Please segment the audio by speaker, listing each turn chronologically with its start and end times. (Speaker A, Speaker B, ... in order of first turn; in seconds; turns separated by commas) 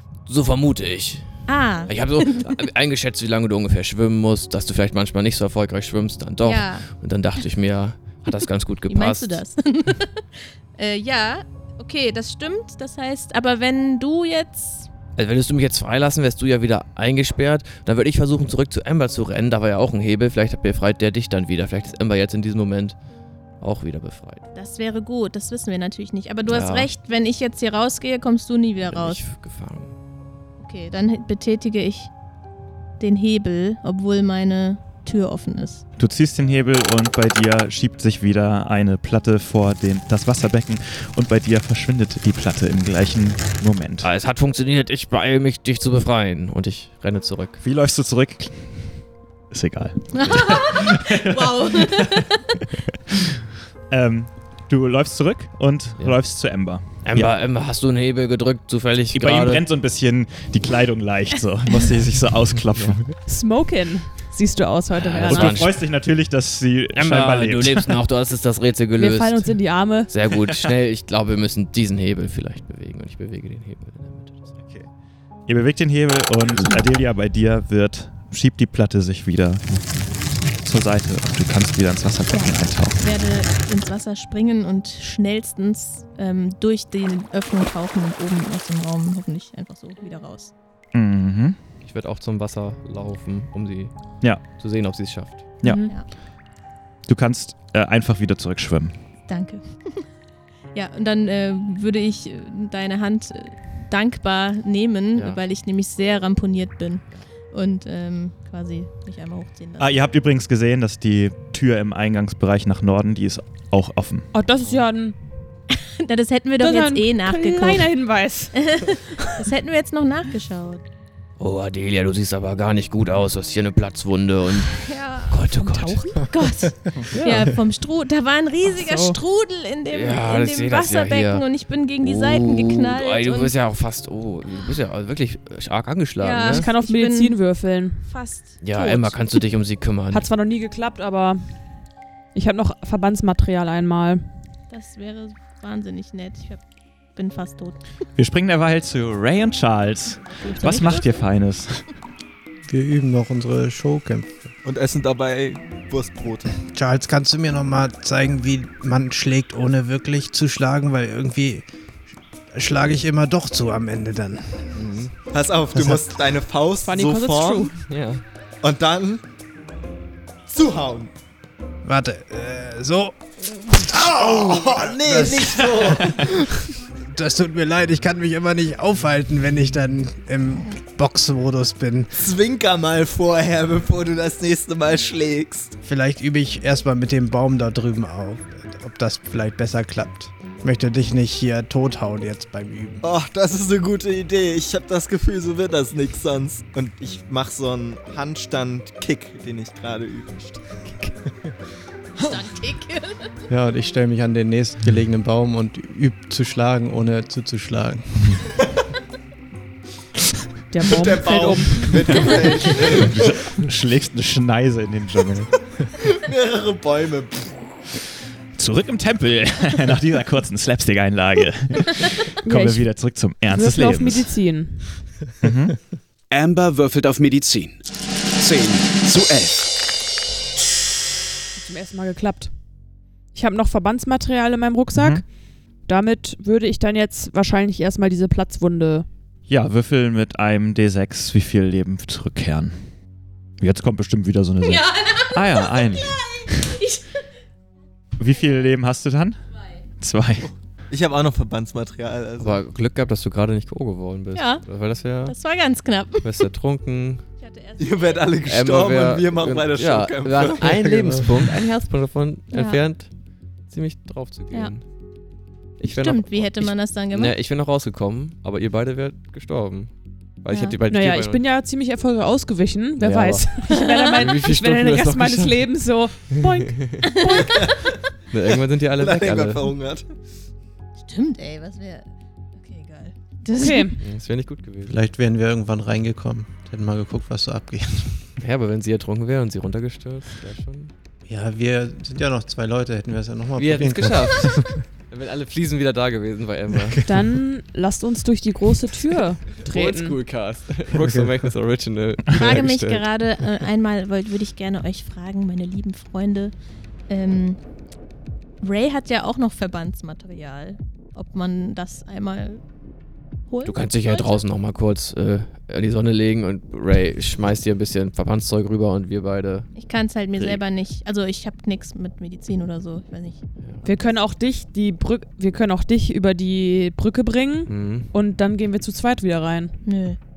Speaker A: 0.3-1.3, Speaker B: 1.5-2.6, Speaker A: 1.9-9.4, Speaker B: 6.4-6.9, Speaker B: 8.3-14.9, Speaker A: 15.2-23.0, Speaker A: 23.6-24.4, Speaker B: 24.5-29.2, Speaker A: 26.5-26.9, Speaker A: 28.9-29.9, Speaker B: 30.6-32.1, Speaker B: 33.0-35.8, Speaker C: 36.0-44.1, Speaker A: 44.0-47.6, Speaker C: 47.6-48.8, Speaker C: 49.5-53.2, Speaker B: 50.1-52.6, Speaker C: 53.9-57.3, Speaker A: 57.0-59.6, Speaker C: 59.1-63.1, Speaker A: 62.7-63.0, Speaker D: 63.3-65.6, Speaker A: 65.0-65.8, Speaker C: 65.2-68.0, Speaker A: 67.0-69.6, Speaker D: 69.0-70.1, Speaker A: 70.1-74.6, Speaker C: 70.5-70.7, Speaker C: 75.5-79.8, Speaker C: 80.6-83.0, Speaker B: 82.3-90.5, Speaker C: 90.9-91.6, Speaker A: 91.8-95.6, Speaker C: 95.6-95.9, Speaker D: 95.6-95.9, Speaker C: 97.1-99.0, Speaker B: 99.3-100.0, Speaker B: 100.7-110.0, Speaker A: 105.2-105.4, Speaker C: 109.8-114.3, Speaker D: 114.3-115.2, Speaker B: 115.7-117.9, Speaker D: 116.6-119.4, Speaker B: 118.5-120.8, Speaker A: 121.4-126.1, Speaker B: 124.8-125.5, Speaker D: 125.4-126.3, Speaker B: 126.1-133.5, Speaker A: 127.1-127.6, Speaker D: 128.6-129.2, Speaker A: 129.9-131.4, Speaker A: 132.0-136.7, Speaker B: 136.2-137.4, Speaker D: 136.5-138.1, Speaker B: 138.0-139.2, Speaker A: 138.6-140.3, Speaker D: 140.1-141.6, Speaker D: 142.3-144.2, Speaker B: 144.7-146.6, Speaker B: 147.2-147.8, Speaker C: 148.2-151.9, Speaker B: 150.2-151.1, Speaker E: 152.7-154.5, Speaker F: 154.6-156.6, Speaker G: 156.7-161.7, Speaker G: 162.5-164.6, Speaker A: 164.7-165.1, Speaker F: 165.0-167.7, Speaker D: 166.8-167.8, Speaker A: 167.9-168.2, Speaker F: 168.6-169.2, Speaker F: 170.5-171.1, Speaker G: 171.8-176.2, Speaker F: 174.0-176.4, Speaker G: 177.1-182.1, Speaker F: 182.1-185.7, Speaker G: 185.8-193.0, Speaker F: 193.0-200.6, Speaker D: 200.8-201.1, Speaker B: 202.2-203.3, Speaker E: 203.5-208.1, Speaker D: 210.7-212.8, Speaker F: 210.8-213.3, Speaker C: 213.0-215.5, Speaker F: 216.0-217.7, Speaker C: 218.6-224.3, Speaker D: 222.4-222.9, Speaker D: 223.5-225.0, Speaker C: 225.4-225.8, Speaker H: 226.3-227.8, Speaker H: 228.4-229.8, Speaker D: 231.6-232.5, Speaker D: 233.3-235.2, Speaker C: 234.9-235.2, Speaker D: 235.9-239.1, Speaker C: 239.5-242.8, Speaker C: 243.6-246.6, Speaker B: 244.7-247.1, Speaker C: 248.2-249.4, Speaker C: 250.0-250.5, Speaker F: 250.9-252.6, Speaker A: 252.4-255.4, Speaker B: 254.3-254.7, Speaker B: 255.3-256.4, Speaker A: 256.2-257.2, Speaker B: 257.4-258.3, Speaker F: 257.8-261.3, Speaker A: 258.4-263.1, Speaker B: 262.5-262.8, Speaker A: 263.7-264.8, Speaker A: 265.8-271.4, Speaker B: 265.8-267.4, Speaker B: 270.5-270.8, Speaker D: 270.9-277.8, Speaker A: 273.0-275.7, Speaker B: 273.7-274.3, Speaker A: 276.3-277.2, Speaker B: 277.0-277.8, Speaker A: 278.3-279.8, Speaker F: 278.9-280.1, Speaker B: 281.0-284.0, Speaker D: 283.6-284.0, Speaker A: 284.0-285.0, Speaker E: 284.9-288.1, Speaker A: 288.4-290.9, Speaker E: 291.3-294.7, Speaker A: 293.6-297.0, Speaker D: 297.0-300.2, Speaker A: 299.6-303.1, Speaker B: 302.3-306.5, Speaker B: 307.1-307.6, Speaker B: 308.6-312.6, Speaker B: 313.5-314.4, Speaker A: 313.6-319.7, Speaker B: 319.7-323.4, Speaker A: 320.4-320.6, Speaker D: 323.8-329.7, Speaker A: 327.7-328.1, Speaker B: 329.9-330.2